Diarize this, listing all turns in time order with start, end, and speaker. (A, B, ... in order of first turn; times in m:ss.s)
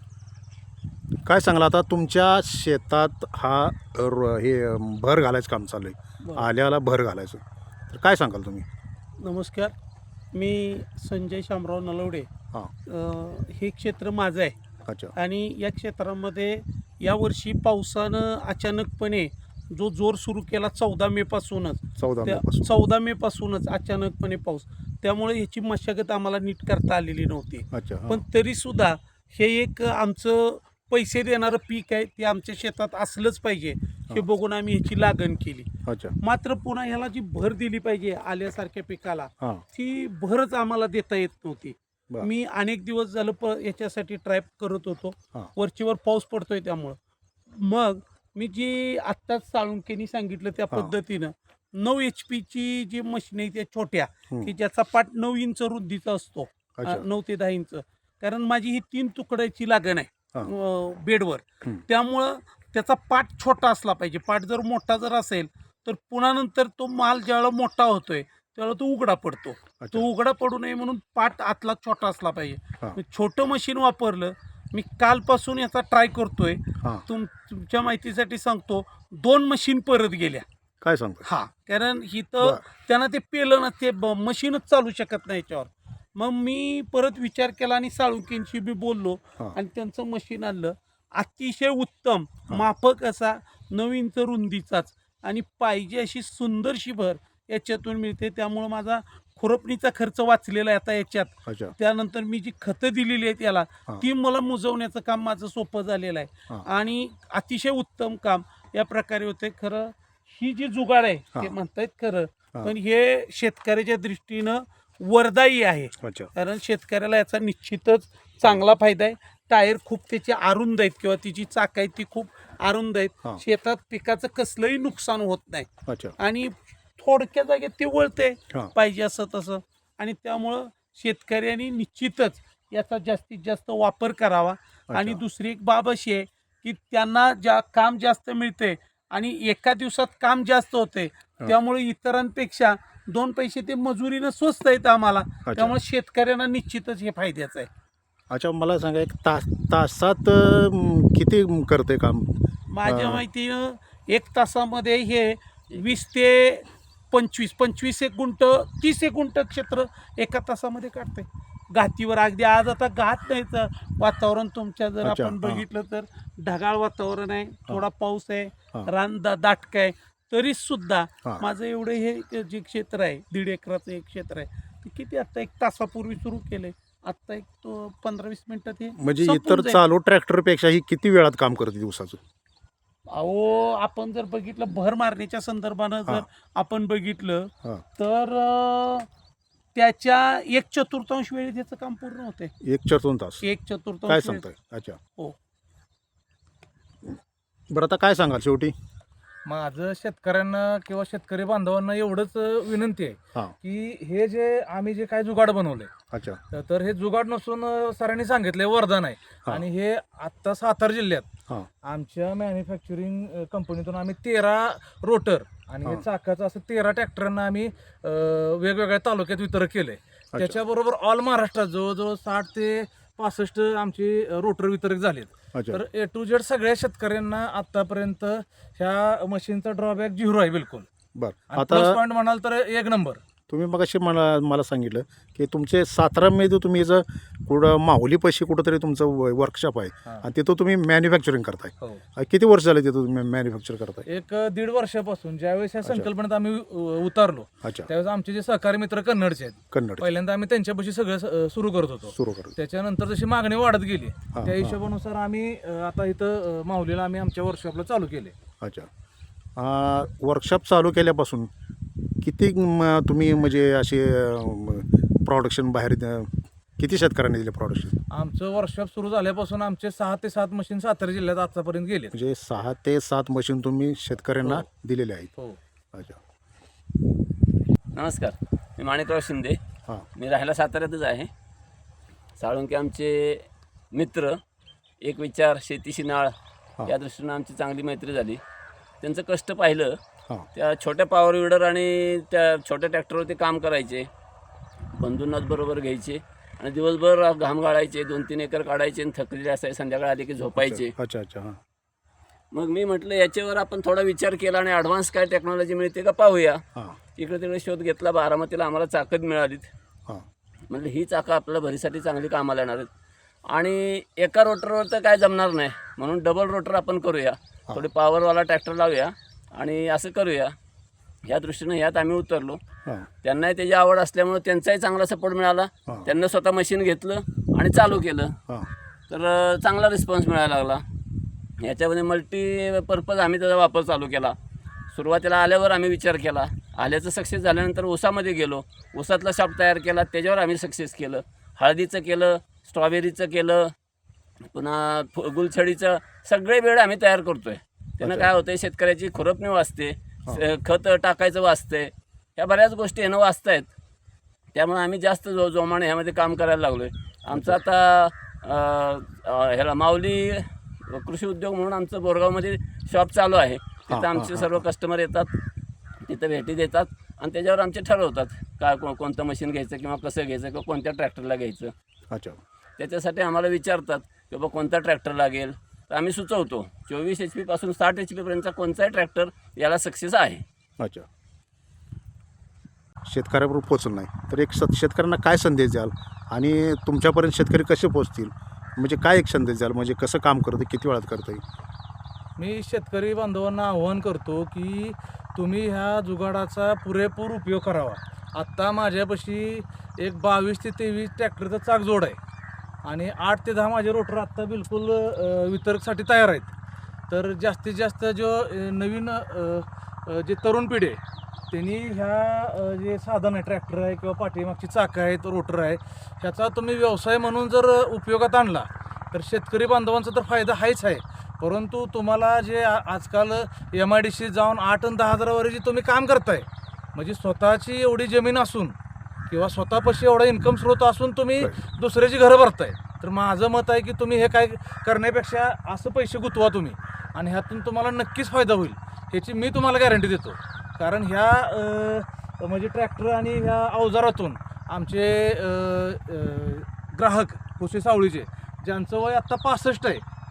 0:01.2-0:08.7 A
0:09.2-0:09.7 B
0:10.3-0:12.3 B
0:12.9-0:14.6 B
0:14.8-0:15.1 A
0:15.2-0:35.7 B
0:22.0-0:22.7 A
0:27.7-0:28.2 A
0:35.9-0:36.1 A
0:36.2-0:47.0 B
0:47.5-1:20.4 B
0:56.8-0:57.0 A
1:09.8-1:10.1 A
1:20.8-1:21.2 A
1:21.2-2:05.7 B
1:41.5-1:41.7 A
1:56.0-1:56.3 A
2:05.9-2:06.1 A
2:06.2-2:27.7 B
2:14.9-2:15.2 A
2:25.5-2:25.8 A
2:28.3-2:33.2 A
2:32.7-2:59.8 B
2:45.0-2:45.6 A
2:59.0-3:02.2 A
3:03.1-3:09.1 B
3:09.8-3:12.5 B
3:12.6-3:13.4 A
3:13.4-3:14.4 B
3:14.1-3:15.0 A
3:17.7-3:18.8 A
3:19.4-3:25.9 C
3:26.1-3:26.4 A
3:26.5-3:31.3 C
3:31.8-3:50.9 C
3:40.3-3:40.6 A
3:45.5-3:45.8 A
3:51.2-3:52.0 A
3:51.5-3:53.2 C
3:53.5-4:04.1 A
4:04.1-4:18.3 C
4:07.6-4:07.9 A
4:09.7-4:10.1 A
4:12.1-4:12.6 A
4:14.3-4:14.8 A
4:18.6-4:18.9 A
4:19.6-4:21.5 A
4:22.2-4:28.0 A
4:28.1-4:32.1 C
4:32.1-4:35.3 A
4:37.9-4:39.6 D
4:40.2-4:41.3 D
4:42.4-4:44.4 D
4:45.0-4:46.3 D
4:46.8-4:48.4 D
4:49.0-4:50.0 D
4:50.6-4:54.1 D
4:55.0-5:00.9 D
5:00.6-5:01.6 A
5:02.5-5:06.6 D
5:07.2-5:09.7 D
5:10.7-5:12.9 D
5:13.5-5:20.5 D
5:21.2-5:22.6 D
5:23.2-5:28.4 D
5:27.7-5:28.7 A
5:29.1-5:30.8 D
5:31.6-5:34.4 D
5:34.9-5:43.7 D
5:44.5-5:53.7 D
5:48.0-5:48.3 A
5:54.5-6:05.3 D
5:57.3-5:57.6 A
6:03.9-6:04.6 A
6:06.1-6:11.7 D
6:12.1-6:12.4 A
6:12.8-6:20.4 D
6:20.8-6:21.1 A
6:23.1-6:31.4 A
6:32.4-6:42.2 C
6:42.8-6:46.5 C
6:47.1-7:08.8 C
7:09.3-7:30.0 C